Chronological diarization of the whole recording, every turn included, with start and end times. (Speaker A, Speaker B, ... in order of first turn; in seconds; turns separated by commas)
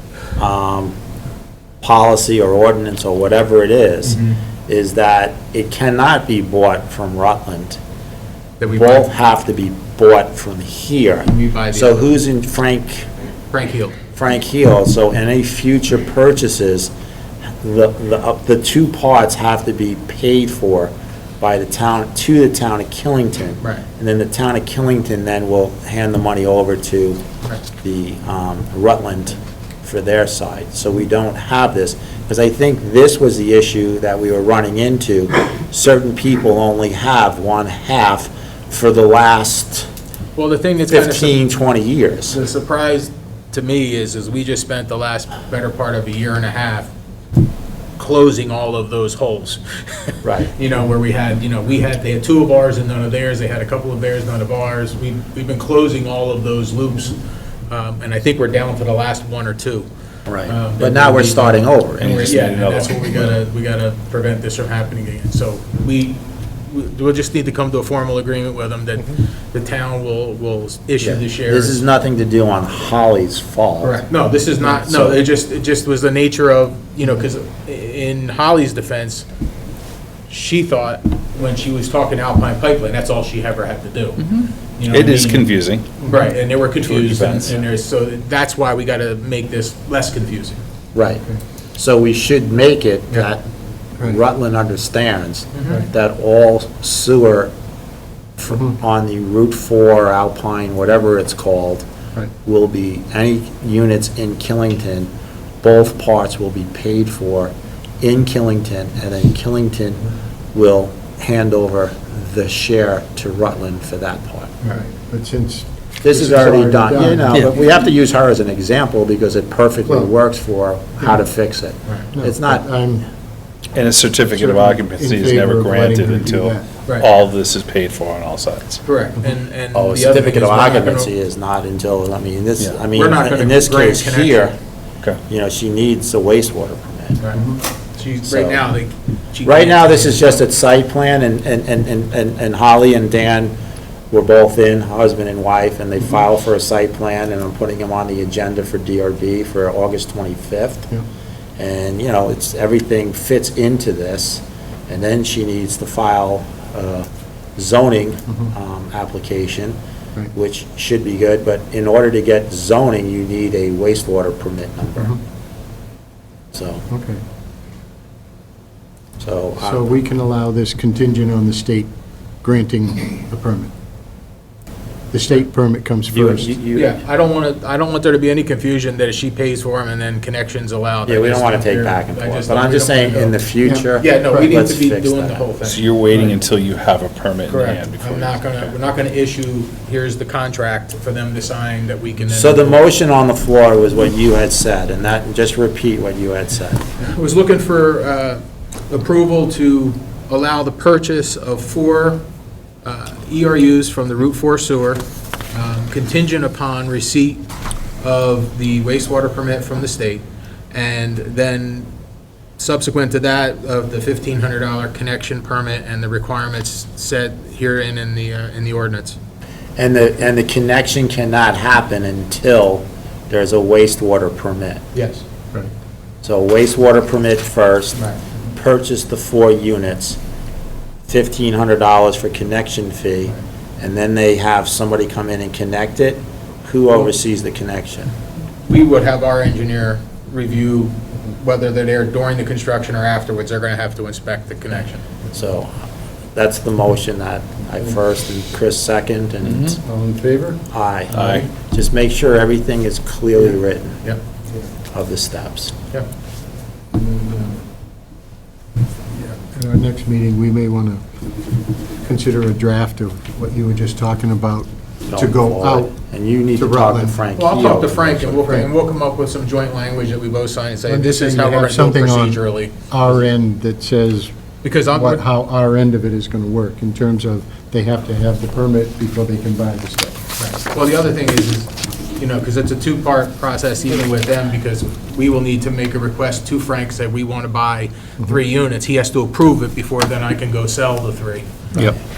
Speaker A: 0.4-0.9, Speaker A: 1.8-7.8, Speaker B: 4.1-4.4, Speaker B: 8.6-9.1, Speaker A: 8.8-13.1, Speaker B: 11.3-12.1, Speaker B: 13.5-14.0, Speaker A: 14.1-16.9, Speaker A: 17.6-27.2, Speaker A: 27.8-39.9, Speaker B: 40.4-41.4, Speaker A: 40.9-42.4, Speaker B: 42.3-46.9, Speaker B: 48.0-57.2, Speaker A: 50.2-50.5, Speaker B: 57.7-59.9, Speaker A: 60.3-62.4, Speaker B: 60.5-71.8, Speaker C: 62.0-63.3, Speaker A: 71.0-74.0, Speaker B: 73.8-79.2, Speaker A: 74.6-75.2, Speaker B: 80.3-85.5, Speaker C: 84.3-87.6, Speaker B: 86.0-90.6, Speaker A: 90.9-91.2, Speaker A: 91.8-93.5, Speaker A: 94.0-97.5, Speaker B: 95.5-95.9, Speaker A: 98.4-101.8, Speaker A: 102.4-105.1, Speaker A: 105.6-114.6, Speaker D: 114.7-117.5, Speaker A: 116.0-122.6, Speaker D: 119.9-120.1, Speaker D: 122.1-123.0, Speaker C: 123.7-128.8, Speaker D: 124.3-126.7, Speaker B: 128.8-131.1, Speaker A: 129.7-134.6, Speaker B: 132.9-134.5, Speaker A: 135.3-137.2, Speaker B: 137.2-140.4, Speaker A: 138.2-138.6, Speaker A: 139.4-143.6, Speaker A: 144.1-150.9, Speaker A: 151.6-159.8, Speaker A: 160.3-165.2, Speaker A: 166.5-166.8, Speaker D: 166.9-167.2, Speaker A: 169.2-170.0, Speaker D: 169.6-171.9, Speaker D: 172.4-173.7, Speaker D: 175.1-176.5, Speaker A: 176.1-176.9, Speaker B: 176.8-183.4, Speaker A: 181.1-185.5, Speaker D: 183.7-184.5, Speaker B: 183.9-186.3, Speaker C: 185.7-188.7, Speaker B: 187.5-192.8, Speaker A: 192.3-196.9, Speaker B: 197.0-202.2, Speaker B: 202.8-207.4, Speaker B: 208.0-211.9, Speaker B: 212.6-219.2, Speaker A: 219.8-224.8, Speaker B: 224.9-225.2, Speaker A: 226.2-228.0, Speaker B: 227.9-228.2, Speaker A: 228.5-230.2, Speaker A: 231.1-238.1, Speaker B: 238.6-245.1, Speaker A: 245.3-245.7, Speaker A: 246.3-249.8, Speaker C: 249.4-249.8, Speaker D: 249.8-250.7, Speaker A: 250.7-254.0, Speaker C: 251.1-251.5, Speaker A: 254.9-255.7, Speaker D: 256.9-257.6, Speaker D: 259.3-261.0, Speaker D: 262.0-265.9, Speaker A: 265.1-268.5, Speaker D: 266.6-267.2, Speaker B: 267.4-273.2, Speaker D: 268.4-268.7, Speaker D: 270.9-274.3, Speaker B: 274.6-275.2, Speaker D: 274.9-280.2, Speaker B: 280.4-291.9